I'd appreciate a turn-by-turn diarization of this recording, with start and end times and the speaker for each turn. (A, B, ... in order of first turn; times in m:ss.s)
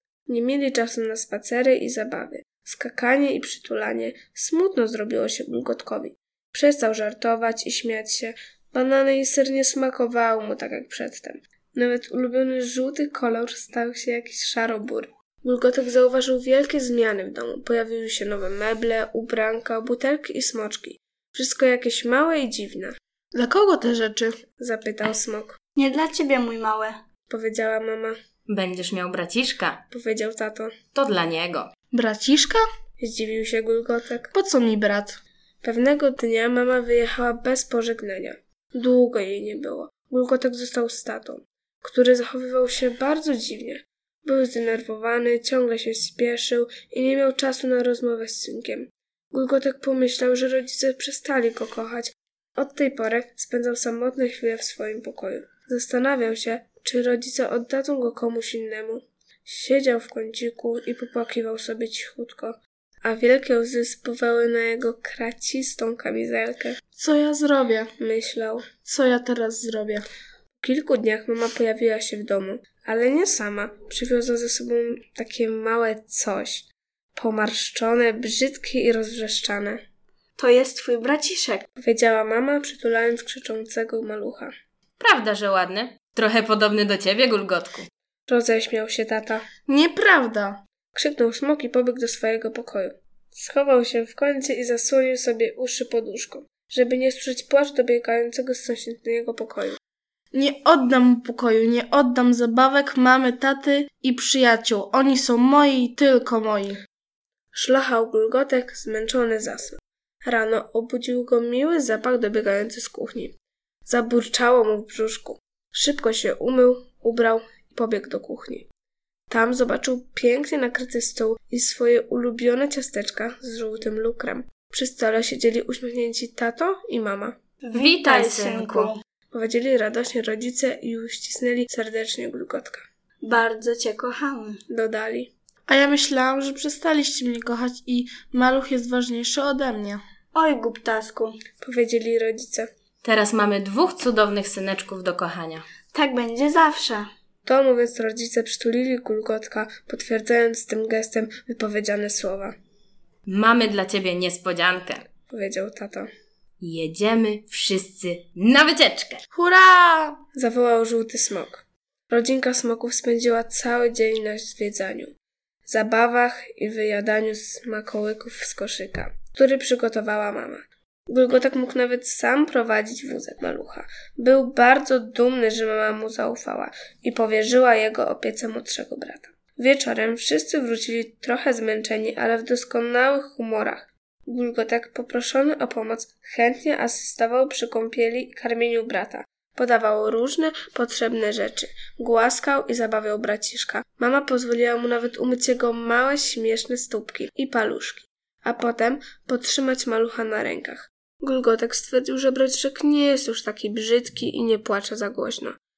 0:00.3-0:22.9 A
0:23.3-0:24.4 B
0:24.6-0:25.6 A
0:25.7-0:26.9 C
0:27.3-0:28.1 A
0:28.5-0:29.8 D
0:29.9-0:30.8 A
0:30.9-0:31.7 D
0:31.9-0:32.6 B
0:33.0-0:34.3 A
0:34.3-0:35.2 B
0:35.6-1:06.8 A
1:07.0-1:07.9 B
1:08.0-1:08.8 A
1:08.8-1:10.0 B
1:10.6-1:19.8 A
1:20.4-1:21.6 C
1:21.8-1:24.5 A
1:25.0-1:27.9 D
1:28.3-1:29.4 A
1:29.7-1:30.6 B
1:30.9-1:39.8 A
1:40.3-1:46.8 B
1:47.5-1:53.3 A
1:53.8-1:58.7 A
1:59.3-2:07.4 A
2:07.6-2:09.0 C
2:07.7-2:08.9 D
2:09.3-2:12.8 A
2:13.2-2:14.6 C
2:14.7-2:15.3 A
2:15.7-2:20.0 B
2:20.3-2:21.4 C
2:21.6-2:22.7 A
2:23.0-2:25.6 D
2:25.9-2:27.1 C
2:27.4-2:32.5 A
2:33.3-2:35.0 D
2:35.3-2:36.1 A
2:36.6-2:39.2 D
2:39.3-2:40.2 B
2:40.3-2:45.1 A
2:45.6-3:25.6 A